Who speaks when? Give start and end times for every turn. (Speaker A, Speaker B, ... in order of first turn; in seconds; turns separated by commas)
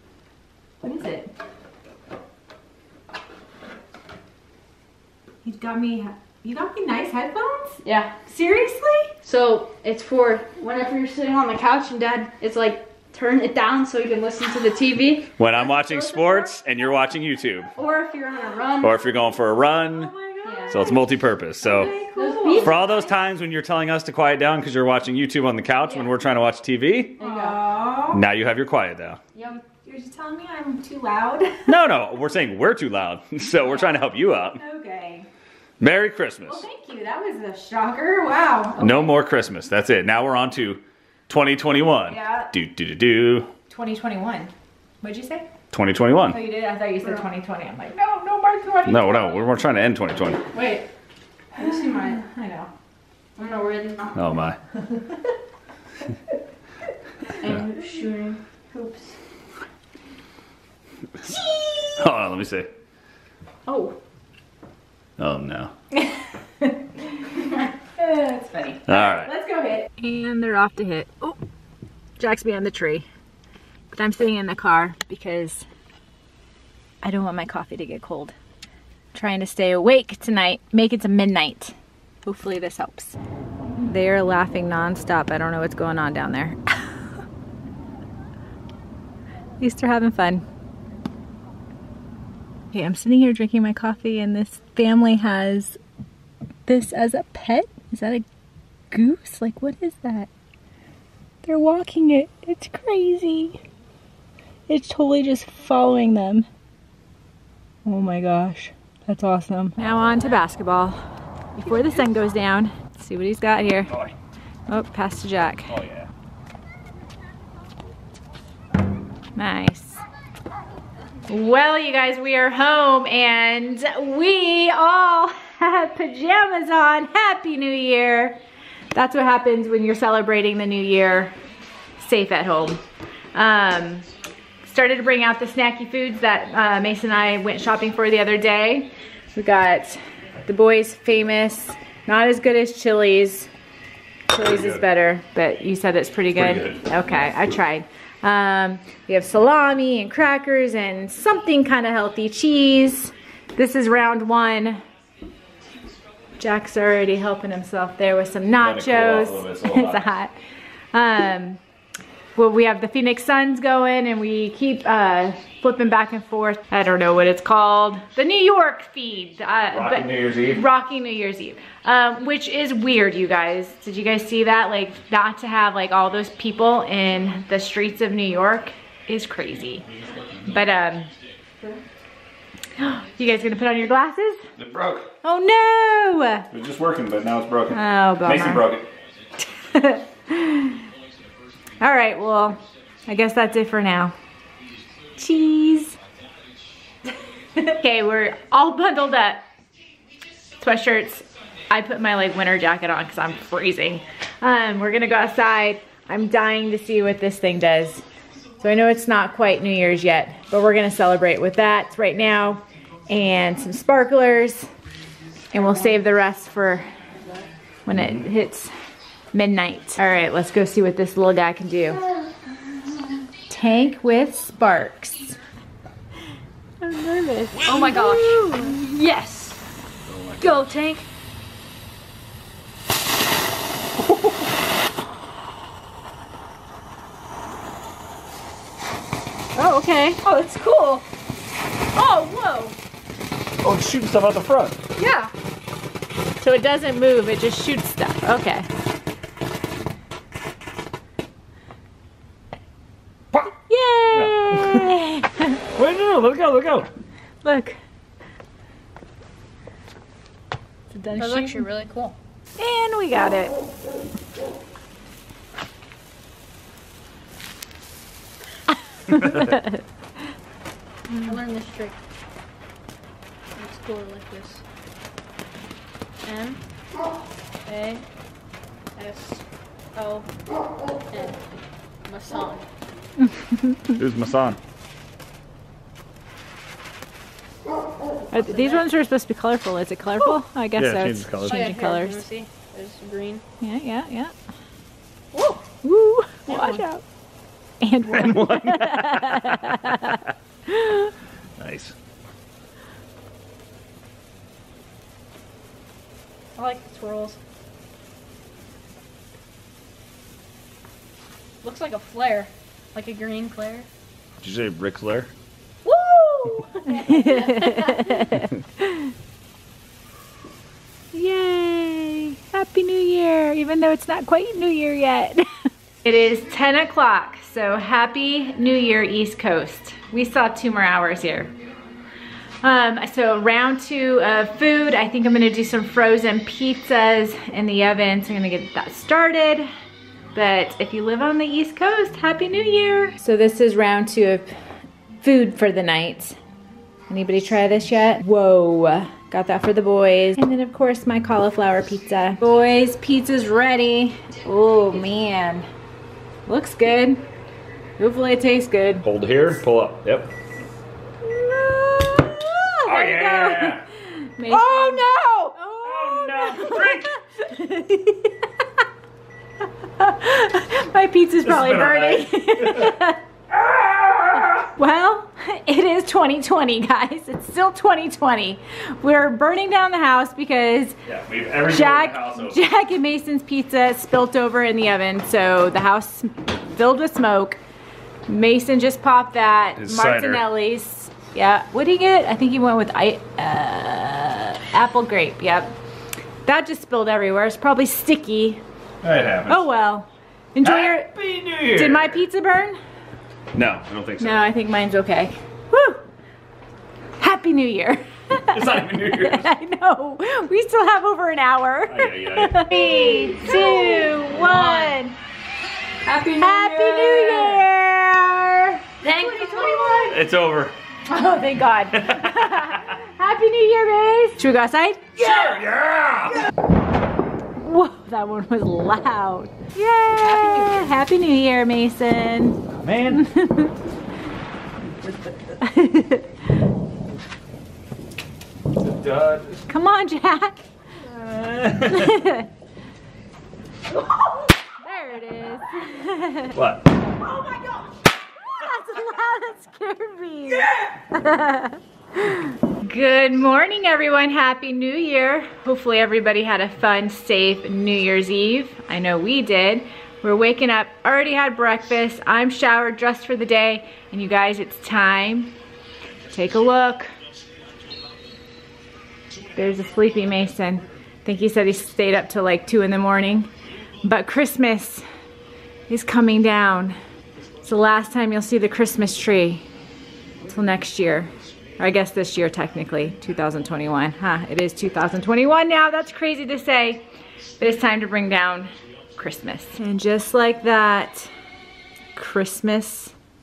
Speaker A: 0.8-1.3, Speaker A: 5.5-9.1, Speaker B: 7.8-8.1, Speaker B: 9.2-16.5, Speaker C: 15.4-17.7, Speaker B: 17.8-19.1, Speaker C: 18.8-20.1, Speaker A: 19.8-21.1, Speaker B: 20.4-20.8, Speaker C: 20.7-21.9, Speaker A: 21.6-22.9, Speaker B: 22.1-23.0, Speaker C: 22.6-27.1, Speaker B: 27.2-27.6, Speaker A: 27.2-28.2, Speaker C: 28.1-29.2, Speaker B: 29.3-29.6, Speaker A: 29.9-31.8, Speaker C: 31.7-34.6, Speaker A: 34.6-35.3, Speaker C: 35.8-36.6, Speaker A: 36.5-39.1, Speaker C: 38.8-43.5, Speaker A: 42.1-42.5, Speaker A: 43.7-44.5, Speaker A: 45.0-45.5, Speaker C: 45.7-46.4, Speaker A: 46.3-49.4, Speaker C: 48.9-50.4, Speaker B: 50.5-50.9, Speaker B: 51.5-52.2, Speaker A: 51.6-52.7, Speaker B: 53.4-54.2, Speaker C: 54.1-54.6, Speaker B: 57.4-59.1, Speaker A: 61.5-61.9, Speaker C: 62.0-62.7, Speaker B: 63.7-64.0, Speaker C: 65.2-65.7, Speaker A: 68.0-71.4, Speaker C: 68.9-69.3, Speaker A: 72.2-73.1, Speaker A: 73.9-75.7, Speaker A: 77.0-78.3, Speaker A: 79.1-81.7, Speaker A: 82.2-83.2, Speaker A: 83.8-87.0, Speaker A: 89.6-90.4, Speaker A: 92.7-95.8, Speaker A: 96.7-98.2, Speaker A: 98.9-100.3, Speaker A: 101.4-103.6, Speaker A: 104.7-106.5, Speaker A: 107.8-111.0, Speaker A: 111.6-113.9, Speaker C: 113.9-114.1, Speaker A: 114.7-115.8, Speaker C: 115.7-116.1, Speaker A: 119.4-120.0, Speaker A: 121.3-128.4, Speaker A: 128.9-131.3, Speaker A: 132.0-132.8, Speaker A: 133.3-134.1, Speaker A: 134.6-143.5, Speaker A: 144.3-154.8, Speaker C: 144.4-144.8, Speaker C: 146.3-147.3, Speaker A: 156.4-160.3, Speaker C: 158.6-160.1, Speaker A: 160.9-161.6, Speaker A: 162.4-179.9, Speaker C: 169.7-170.6, Speaker C: 179.9-180.4, Speaker A: 180.5-181.1, Speaker A: 182.8-184.5, Speaker C: 184.6-185.1, Speaker A: 185.2-186.5, Speaker C: 186.5-188.9, Speaker A: 187.7-188.7, Speaker A: 189.4-190.8, Speaker A: 191.8-194.1, Speaker A: 195.2-196.0, Speaker A: 197.6-199.5, Speaker A: 200.6-208.1, Speaker A: 208.6-214.7, Speaker A: 215.5-216.9, Speaker A: 217.9-218.7, Speaker C: 217.9-218.2, Speaker A: 219.3-222.0, Speaker A: 223.5-225.4, Speaker A: 226.8-228.8, Speaker B: 227.6-229.6, Speaker C: 230.1-230.7, Speaker B: 230.4-231.0, Speaker A: 239.6-240.2, Speaker B: 240.2-241.1, Speaker B: 241.9-242.8, Speaker C: 243.6-244.8, Speaker B: 245.0-245.3, Speaker A: 246.4-248.7, Speaker A: 253.7-255.6, Speaker C: 254.1-254.9, Speaker C: 255.8-256.9, Speaker A: 257.4-257.8, Speaker A: 260.9-261.6, Speaker B: 261.1-262.1, Speaker A: 262.6-263.5, Speaker A: 269.2-269.7, Speaker A: 271.1-271.4, Speaker B: 271.2-272.0, Speaker B: 273.6-274.6, Speaker B: 276.2-276.6, Speaker B: 277.7-278.1, Speaker B: 279.0-279.4, Speaker B: 279.9-280.3, Speaker B: 281.1-281.5, Speaker B: 282.1-282.6, Speaker A: 283.2-283.9, Speaker C: 284.0-284.6, Speaker A: 288.3-292.2, Speaker C: 290.8-291.6, Speaker B: 291.4-293.4, Speaker A: 293.6-294.3, Speaker B: 295.3-295.6, Speaker A: 295.8-297.0, Speaker B: 296.5-296.8, Speaker A: 297.8-300.1, Speaker C: 298.1-300.1, Speaker A: 300.7-301.1, Speaker C: 301.6-301.9, Speaker B: 306.6-307.4, Speaker B: 311.6-313.9, Speaker C: 314.4-315.3, Speaker B: 315.9-318.3, Speaker A: 316.9-319.1, Speaker A: 321.1-325.5, Speaker A: 326.0-331.5, Speaker A: 332.6-339.7, Speaker A: 340.3-344.5, Speaker A: 345.2-346.4, Speaker A: 347.1-355.7, Speaker A: 356.5-357.2, Speaker A: 358.0-359.1, Speaker C: 359.0-360.3, Speaker A: 361.2-368.4, Speaker C: 362.8-363.8, Speaker C: 364.5-367.1, Speaker A: 370.0-373.2, Speaker C: 371.4-372.9, Speaker C: 373.5-374.7, Speaker A: 374.6-381.0, Speaker C: 381.1-382.6, Speaker A: 381.7-387.6, Speaker A: 388.3-395.7, Speaker C: 389.8-390.4, Speaker A: 396.5-398.6, Speaker C: 399.0-399.6, Speaker A: 399.5-401.1, Speaker C: 400.6-402.2, Speaker A: 401.7-402.8, Speaker C: 403.5-404.4, Speaker A: 404.2-406.0, Speaker A: 407.2-415.2, Speaker C: 408.5-409.5, Speaker C: 411.9-412.6, Speaker B: 412.7-415.0, Speaker B: 416.1-417.6, Speaker A: 416.4-420.1, Speaker B: 419.0-420.2, Speaker C: 420.0-420.8, Speaker A: 421.1-425.1, Speaker C: 422.0-422.7, Speaker C: 425.2-426.4, Speaker A: 427.6-433.7, Speaker B: 430.2-431.0, Speaker C: 432.8-433.3, Speaker A: 435.6-436.3, Speaker C: 438.8-439.6, Speaker A: 439.7-440.6, Speaker C: 441.0-442.2, Speaker A: 441.9-442.5, Speaker A: 444.8-446.6, Speaker C: 446.5-446.9, Speaker B: 447.2-447.8, Speaker A: 448.4-465.5, Speaker A: 466.3-467.1, Speaker A: 469.6-473.5, Speaker A: 474.0-475.1, Speaker A: 475.9-477.0, Speaker A: 477.6-479.7, Speaker A: 480.4-487.0, Speaker A: 487.6-491.3, Speaker A: 492.1-493.1